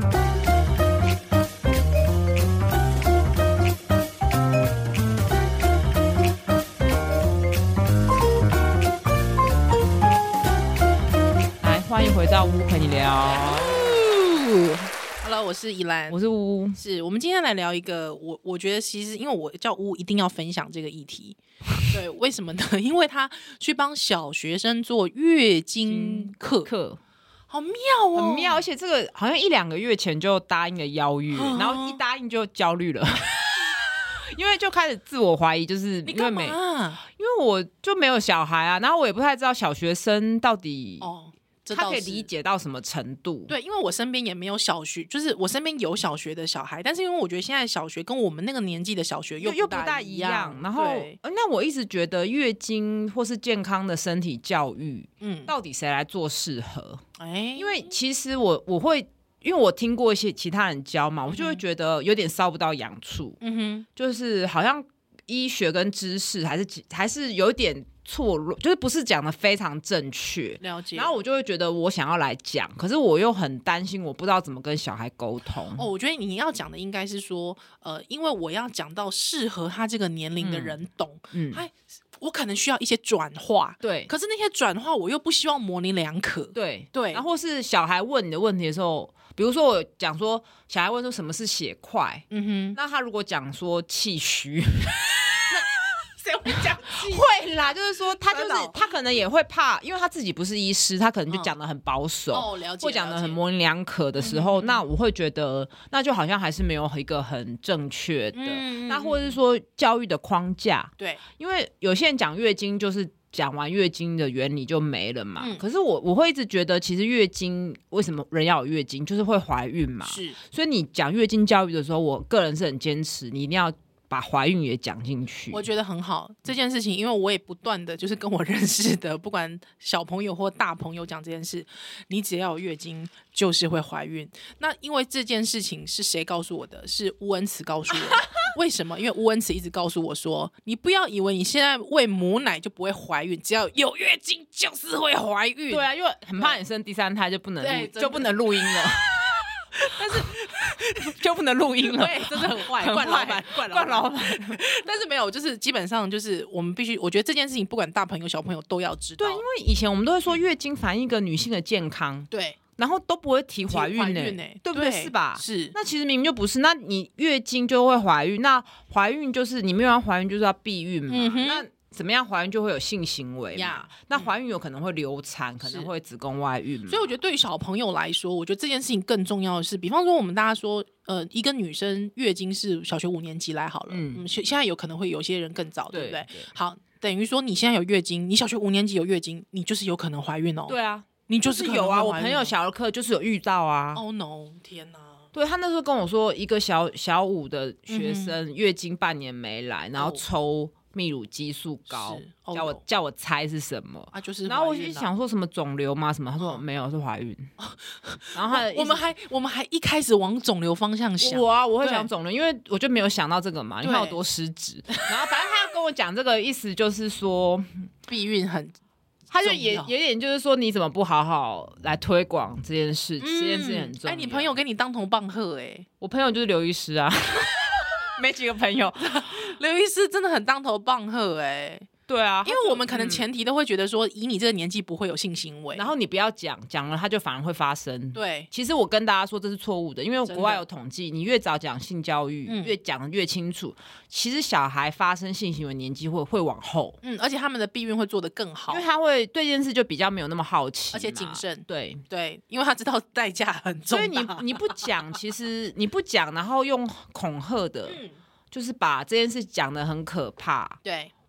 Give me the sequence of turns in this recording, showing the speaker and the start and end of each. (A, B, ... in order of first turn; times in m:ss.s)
0:11.6-0:14.1 A
0:13.2-0:16.2 B
0:16.1-0:16.8 A
0:16.8-0:26.7 B
0:25.8-0:27.0 A
0:27.5-0:28.6 B
0:28.2-0:41.1 A
0:31.3-0:32.0 B
0:36.0-0:37.0 B
0:41.0-0:42.3 B
0:41.7-0:43.5 A
0:43.5-0:51.2 B
0:49.4-0:57.0 A
0:55.2-0:55.5 B
0:57.2-0:57.9 B
0:57.6-1:03.4 A
1:01.2-1:01.6 B
1:03.4-1:03.8 B
1:04.0-1:15.8 A
1:10.6-1:11.1 B
1:15.8-1:27.2 B
1:20.4-1:20.8 A
1:21.3-1:21.6 A
1:23.8-1:24.1 A
1:26.5-1:35.7 A
1:32.3-1:32.8 B
1:36.2-1:38.9 B
1:36.9-2:05.6 A
1:42.3-1:43.4 B
1:44.2-1:44.8 B
1:48.3-1:49.4 B
1:51.0-1:51.2 B
2:00.0-2:00.4 B
2:05.5-2:25.8 B
2:25.7-2:29.1 A
2:26.4-2:26.6 B
2:27.6-2:29.2 B
2:29.7-2:31.1 B
2:30.8-2:34.6 A
2:31.9-2:39.4 B
2:39.2-2:57.1 A
2:42.3-2:42.6 B
2:43.7-2:45.7 B
2:51.1-2:51.7 B
2:53.5-2:54.3 B
2:55.6-2:55.9 B
2:56.9-3:10.8 B
3:03.9-3:04.2 A
3:05.9-3:06.5 A
3:10.7-3:14.0 A
3:11.3-3:12.5 B
3:13.9-3:15.2 B
3:15.3-3:27.5 A
3:17.9-3:18.4 B
3:20.0-3:20.2 B
3:21.9-3:22.8 B
3:24.1-3:25.1 B
3:27.6-3:32.1 B
3:28.3-3:29.1 A
3:31.2-3:37.8 A
3:33.8-3:34.2 B
3:38.1-3:38.7 B
3:39.3-3:44.5 A
3:39.4-3:39.9 B
3:43.2-3:45.9 B
3:46.0-3:49.2 A
3:49.0-3:51.9 B
3:52.1-3:53.2 A
3:52.4-3:55.9 B
3:55.7-4:07.0 A
3:58.1-3:58.5 B
4:00.2-4:00.6 B
4:02.4-4:02.8 B
4:07.0-4:08.8 B
4:08.7-4:12.0 A
4:10.9-4:14.9 B
4:13.9-4:20.8 A
4:17.8-4:18.2 B
4:20.8-4:21.1 B